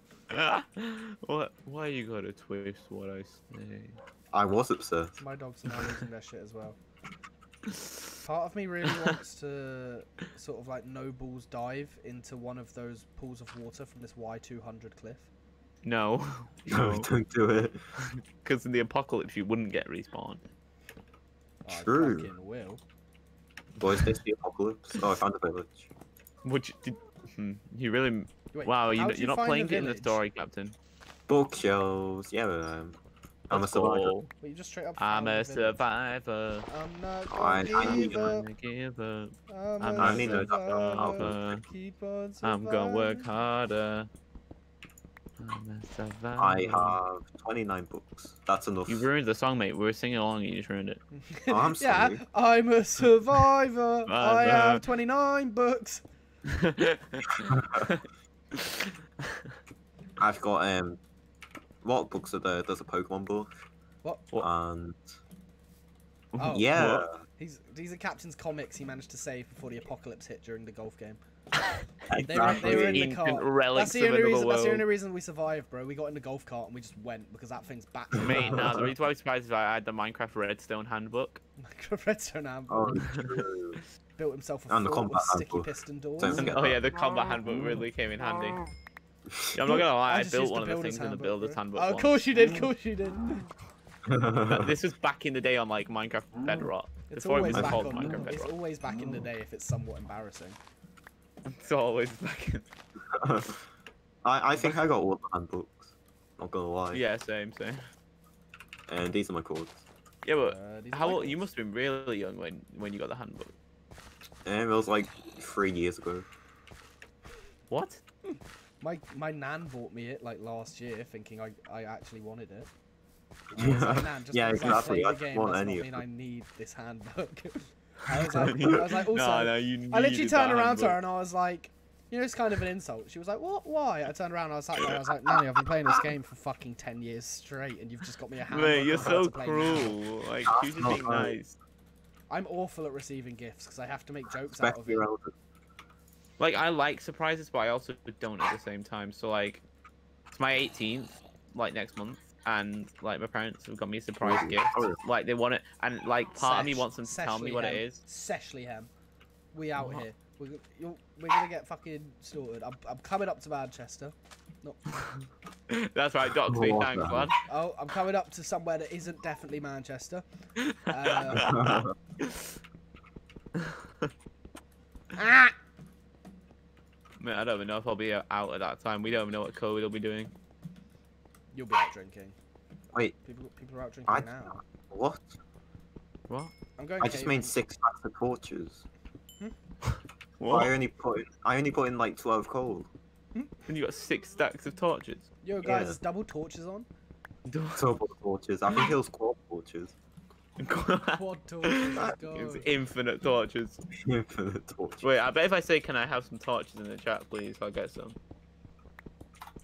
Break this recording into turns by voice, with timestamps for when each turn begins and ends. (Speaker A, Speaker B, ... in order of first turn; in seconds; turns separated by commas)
Speaker A: 0.3-4.0, Speaker B: 4.3-5.2, Speaker C: 5.2-6.8, Speaker A: 5.7-6.0, Speaker A: 7.7-8.0, Speaker C: 8.2-15.3, Speaker A: 15.8-17.1, Speaker B: 16.7-17.8, Speaker A: 18.0-20.4, Speaker C: 21.6-22.8, Speaker B: 21.7-22.3, Speaker B: 23.8-25.9, Speaker A: 26.4-30.8, Speaker C: 28.5-30.2, Speaker B: 31.3-33.0, Speaker B: 33.5-34.1, Speaker A: 33.5-34.3, Speaker C: 34.4-35.8, Speaker A: 35.0-36.7, Speaker C: 36.7-38.5, Speaker B: 37.3-38.3, Speaker A: 37.6-41.6, Speaker C: 39.5-43.2, Speaker B: 40.0-41.4, Speaker A: 42.4-44.1, Speaker A: 45.4-47.0, Speaker B: 46.4-49.1, Speaker A: 48.9-51.0, Speaker C: 51.1-56.0, Speaker B: 51.5-52.2, Speaker A: 54.1-54.8, Speaker A: 56.5-58.9, Speaker B: 57.5-57.8, Speaker B: 60.2-61.0, Speaker B: 61.8-63.5, Speaker B: 64.4-65.0, Speaker A: 66.3-67.0, Speaker C: 66.4-66.8, Speaker B: 66.5-67.1, Speaker C: 67.4-71.2, Speaker B: 72.1-73.1, Speaker A: 72.1-74.8, Speaker C: 72.3-78.9, Speaker B: 78.2-78.9, Speaker A: 78.2-81.4, Speaker C: 81.6-83.0, Speaker B: 82.7-83.8, Speaker C: 84.2-86.5, Speaker B: 84.7-86.8, Speaker A: 86.3-88.6, Speaker A: 89.5-92.3, Speaker C: 89.7-93.5, Speaker B: 94.1-94.7, Speaker A: 94.5-98.5, Speaker C: 97.1-100.6, Speaker B: 97.5-97.9, Speaker A: 101.5-102.6, Speaker B: 103.1-103.6, Speaker B: 104.2-107.0, Speaker A: 106.9-107.8, Speaker B: 108.9-109.8, Speaker A: 110.2-113.5, Speaker C: 110.4-111.4, Speaker B: 114.4-116.2, Speaker A: 117.7-118.0, Speaker C: 118.8-122.7, Speaker B: 123.5-126.0, Speaker C: 123.5-140.0, Speaker A: 128.3-131.0, Speaker A: 138.5-141.6, Speaker B: 140.5-141.4, Speaker C: 142.3-145.0, Speaker B: 144.5-145.3, Speaker A: 146.4-149.6, Speaker A: 150.3-158.0, Speaker B: 154.2-155.0, Speaker C: 156.4-158.9, Speaker C: 159.5-164.8, Speaker A: 159.8-160.0, Speaker A: 165.0-167.4, Speaker B: 166.5-167.3, Speaker C: 167.5-170.2, Speaker A: 170.6-172.4, Speaker C: 170.9-171.5, Speaker B: 171.3-171.9, Speaker A: 173.6-174.1, Speaker C: 175.2-175.5, Speaker A: 177.2-180.3, Speaker C: 181.5-182.4, Speaker C: 183.2-184.6, Speaker B: 184.1-185.3, Speaker C: 186.8-187.5, Speaker B: 187.0-188.8, Speaker A: 190.4-190.7, Speaker B: 190.5-192.9, Speaker A: 193.7-195.2, Speaker C: 195.4-196.9, Speaker B: 195.6-196.0, Speaker A: 197.5-197.8, Speaker B: 197.8-199.9, Speaker A: 200.6-203.8, Speaker C: 201.1-202.7, Speaker B: 204.0-205.1, Speaker A: 205.0-208.2